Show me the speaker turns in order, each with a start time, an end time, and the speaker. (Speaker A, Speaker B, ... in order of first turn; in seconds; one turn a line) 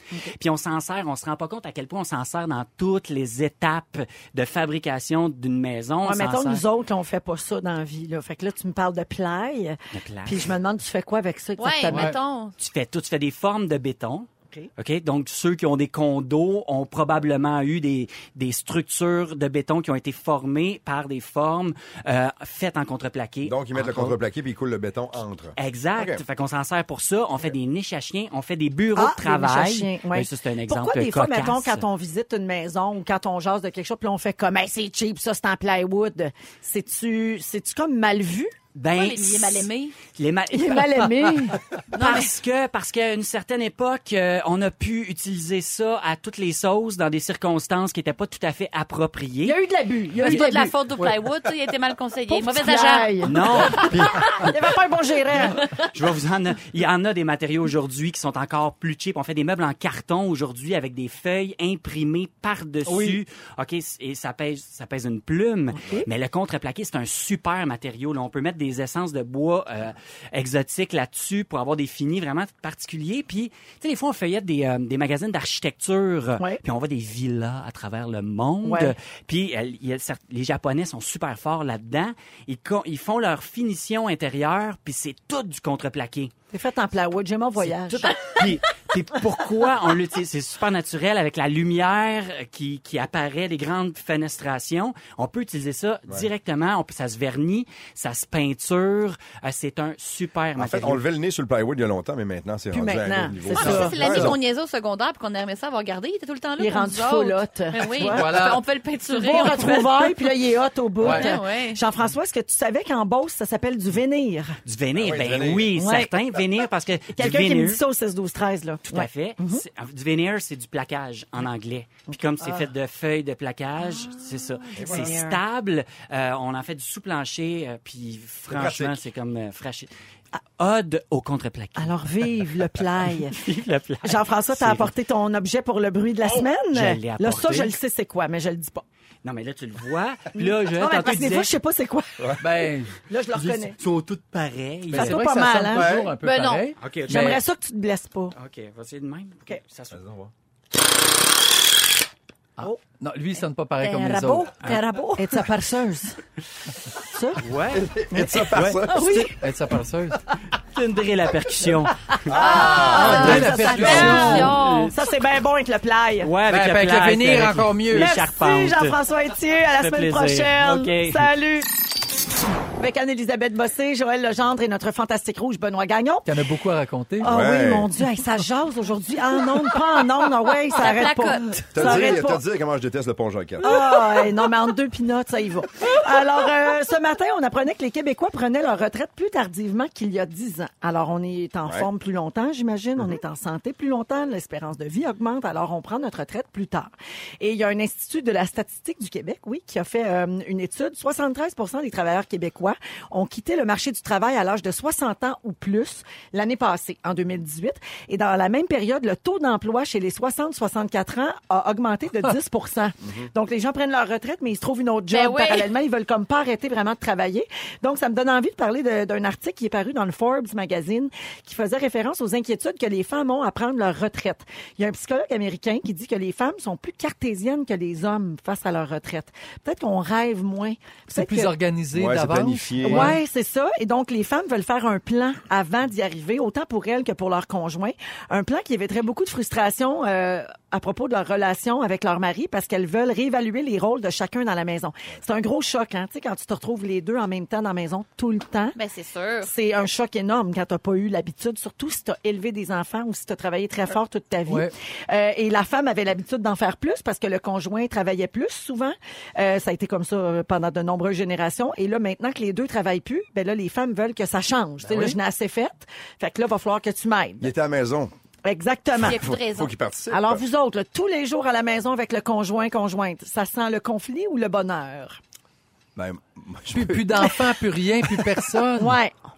Speaker A: 0.3-6.6
Speaker B: 6.0-12.1
Speaker A: 9.9-10.5
Speaker C: 11.6-12.5
Speaker D: 11.9-12.2
Speaker A: 12.6-24.1
Speaker E: 23.4-26.2
Speaker A: 25.6-31.8
Speaker B: 28.9-38.5
Speaker A: 38.7-41.4
Speaker C: 38.9-40.0
Speaker B: 40.5-42.1
Speaker A: 41.9-49.6
Speaker C: 41.9-42.3
Speaker B: 49.4-50.7
Speaker C: 50.2-53.2
Speaker B: 52.3-55.7
Speaker A: 53.2-54.1
Speaker A: 55.9-86.3
Speaker D: 62.8-63.2
Speaker B: 78.6-78.9
Speaker B: 86.5-88.4
Speaker A: 87.6-101.0
Speaker E: 100.6-104.4
Speaker B: 102.7-104.2
Speaker C: 103.5-110.3
Speaker D: 103.6-104.3
Speaker B: 106.6-108.5
Speaker D: 108.0-108.6
Speaker B: 109.1-114.5
Speaker D: 111.0-111.3
Speaker C: 111.0-111.8
Speaker A: 114.7-117.8
Speaker E: 114.9-115.8
Speaker B: 115.7-116.1
Speaker B: 117.1-119.6
Speaker A: 118.9-129.9
Speaker E: 124.8-125.1
Speaker B: 124.8-125.4
Speaker E: 128.5-129.0
Speaker A: 130.6-132.4
Speaker B: 131.8-133.4
Speaker A: 133.0-134.9
Speaker B: 134.0-138.8
Speaker A: 136.3-137.8
Speaker A: 139.2-141.5
Speaker B: 140.3-142.4
Speaker D: 142.4-143.0
Speaker B: 143.1-143.8
Speaker A: 143.3-145.2
Speaker D: 144.9-147.4
Speaker B: 144.9-146.0
Speaker E: 145.7-146.1
Speaker C: 146.2-146.7
Speaker A: 146.8-147.4
Speaker B: 147.1-148.3
Speaker A: 148.3-150.0
Speaker E: 149.9-150.3
Speaker D: 152.6-154.8
Speaker C: 153.8-155.3
Speaker B: 155.2-156.2
Speaker B: 157.0-157.4
Speaker A: 157.4-157.9
Speaker E: 157.7-159.3
Speaker B: 158.1-159.3
Speaker A: 158.5-158.8
Speaker D: 159.3-160.2
Speaker A: 160.7-162.2
Speaker E: 162.3-162.8
Speaker B: 162.3-166.3
Speaker C: 162.3-164.9
Speaker D: 162.6-164.6
Speaker A: 163.1-164.9
Speaker A: 166.2-169.0
Speaker D: 166.4-168.1
Speaker B: 167.9-171.7
Speaker A: 169.7-171.3
Speaker B: 172.8-176.3
Speaker D: 176.2-177.3
Speaker E: 177.2-177.9
Speaker B: 177.2-182.4
Speaker C: 180.7-182.2
Speaker E: 181.7-183.8
Speaker B: 183.6-231.6
Speaker C: 215.1-215.7
Speaker D: 231.1-233.2
Speaker E: 231.9-233.2
Speaker B: 232.8-248.8
Speaker C: 248.7-249.5
Speaker B: 249.4-267.5
Speaker D: 254.5-254.7
Speaker D: 264.8-265.2
Speaker E: 267.4-268.1
Speaker B: 268.4-269.2
Speaker E: 268.9-270.4
Speaker C: 269.0-269.7
Speaker B: 270.1-275.2
Speaker E: 275.9-277.3
Speaker D: 276.7-279.0
Speaker B: 278.8-279.1